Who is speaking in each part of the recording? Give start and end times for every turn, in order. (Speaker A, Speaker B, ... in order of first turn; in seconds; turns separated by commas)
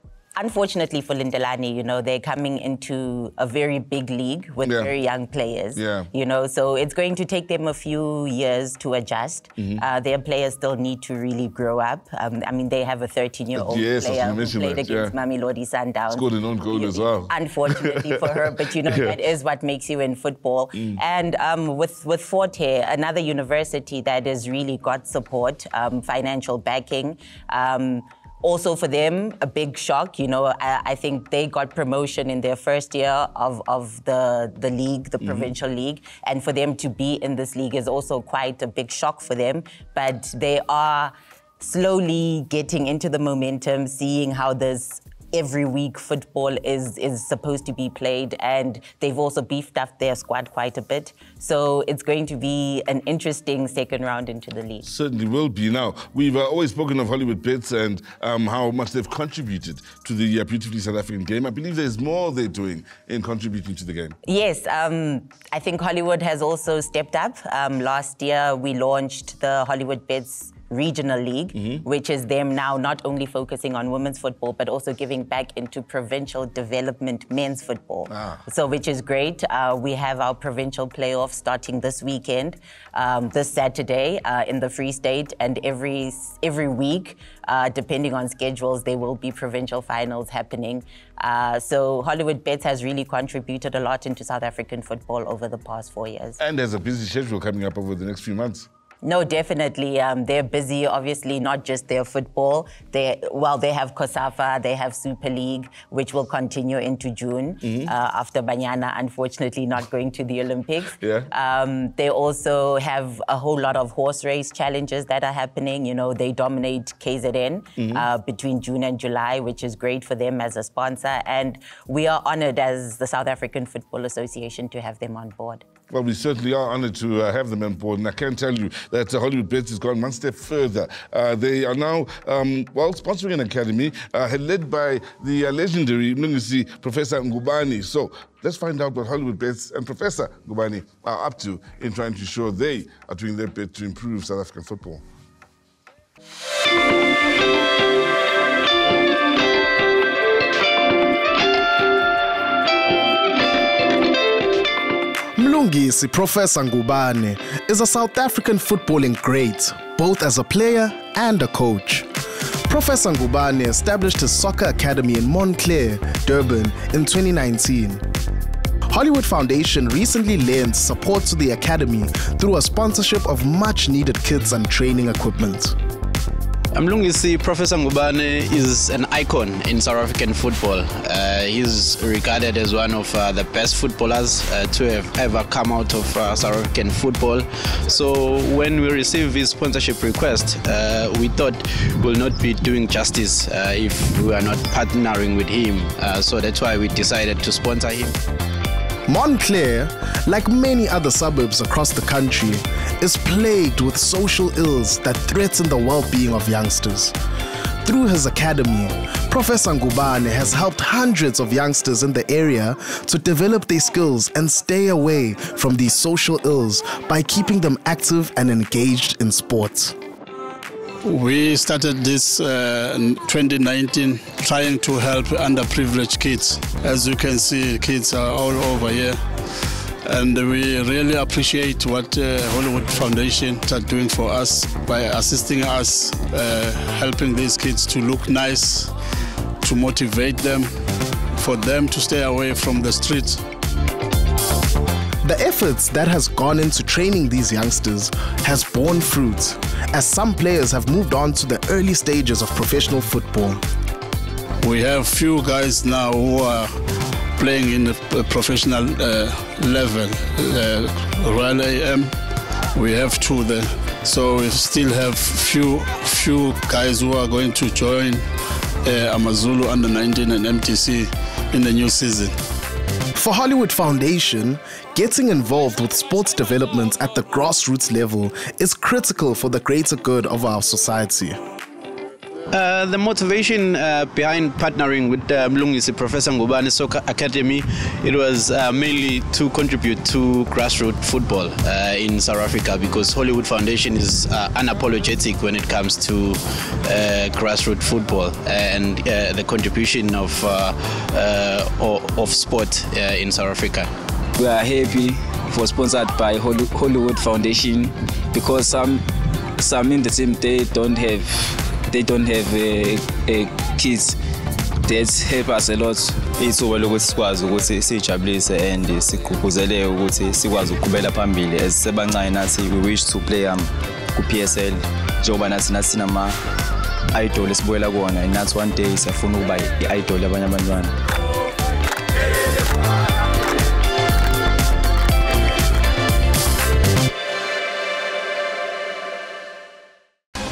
Speaker A: 0.3-54.8, Speaker B: 4.6-4.9, Speaker B: 5.8-6.1, Speaker B: 13.5-15.1, Speaker B: 16.1-19.2, Speaker B: 35.2-35.5, Speaker B: 54.8-64.2, Speaker A: 64.2-96.4, Speaker B: 71.5-71.8, Speaker B: 78.1-78.4, Speaker B: 96.4-98.7, Speaker A: 99.0-125.6, Speaker B: 107.6-107.9, Speaker B: 111.0-111.3, Speaker B: 117.8-118.1, Speaker B: 125.9-145.0, Speaker C: 155.3-162.1, Speaker C: 162.7-168.0, Speaker C: 168.9-175.8, Speaker D: 176.7-198.1, Speaker C: 199.1-207.1, Speaker C: 207.8-219.9, Speaker E: 221.0-229.4, Speaker E: 230.0-238.9, Speaker E: 239.6-243.4, Speaker C: 245.2-253.6, Speaker E: 254.6-256.8, Speaker E: 257.4-262.1, Speaker E: 262.7-268.2, Speaker E: 268.8-272.4, Speaker C: 273.1-281.4, Speaker D: 282.5-303.9, Speaker F: 304.4-309.1, Speaker F: 309.6-314.2, Speaker F: 314.8-326.4, Speaker F: 327.1-330.9